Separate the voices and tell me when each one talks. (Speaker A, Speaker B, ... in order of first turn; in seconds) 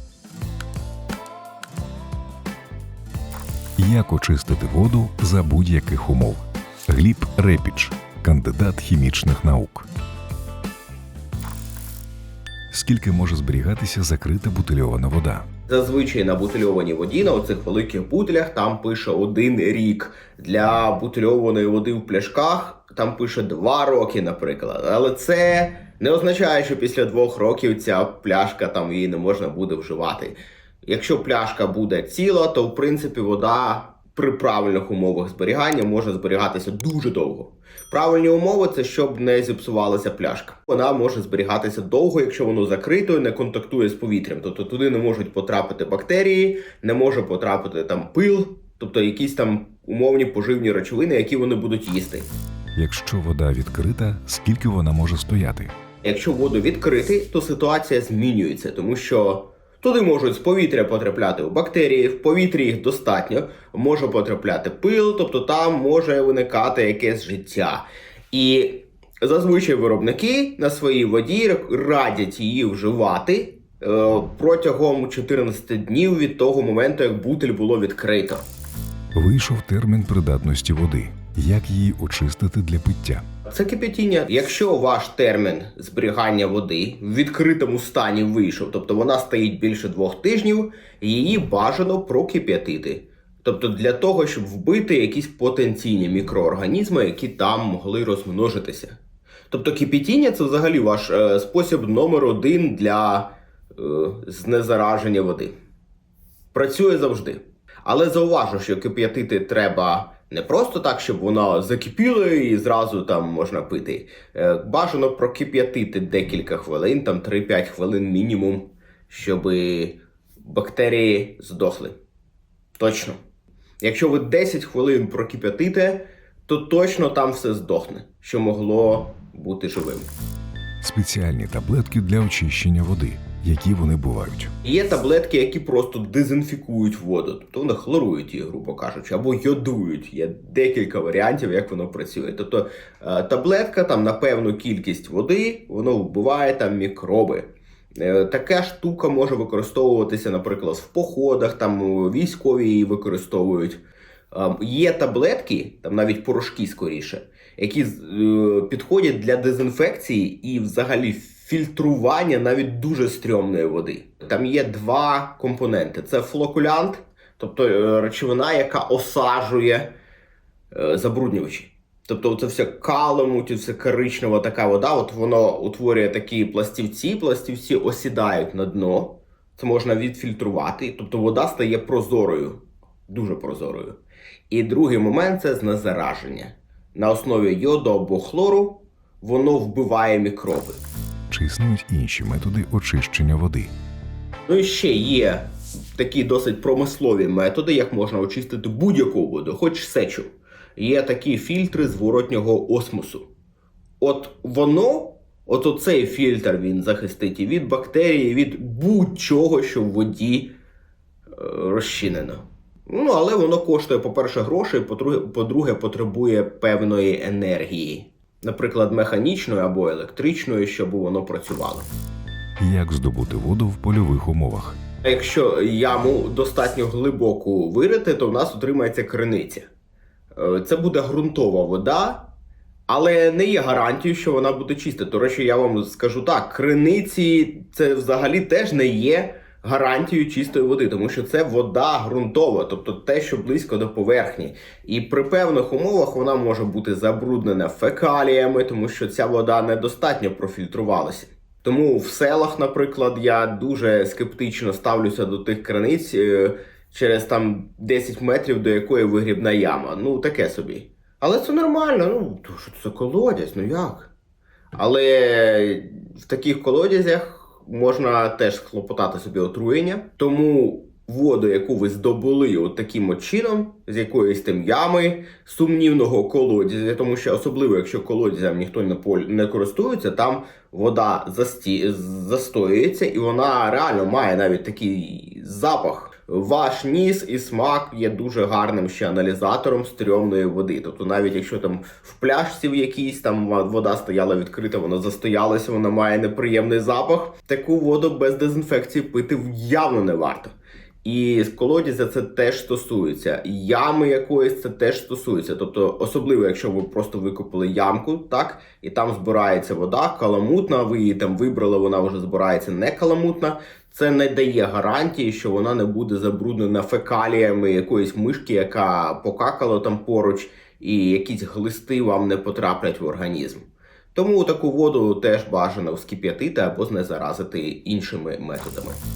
Speaker A: 3.8-9.9, 12.7-15.5, 52.8-55.7, 79.1-83.2, 130.8-134.5, 191.3-193.7, 222.6-224.8
Speaker B: 15.7-52.3, 56.0-78.4, 83.5-99.0, 99.5-105.5, 106.5-122.0, 122.8-123.2, 123.8-130.1, 134.6-153.8, 154.3-169.9, 170.7-184.0, 184.5-190.8, 194.5-203.3, 204.0-210.5, 211.3-221.9, 225.0-229.7, 230.3-232.3, 232.9-264.1, 264.8-329.0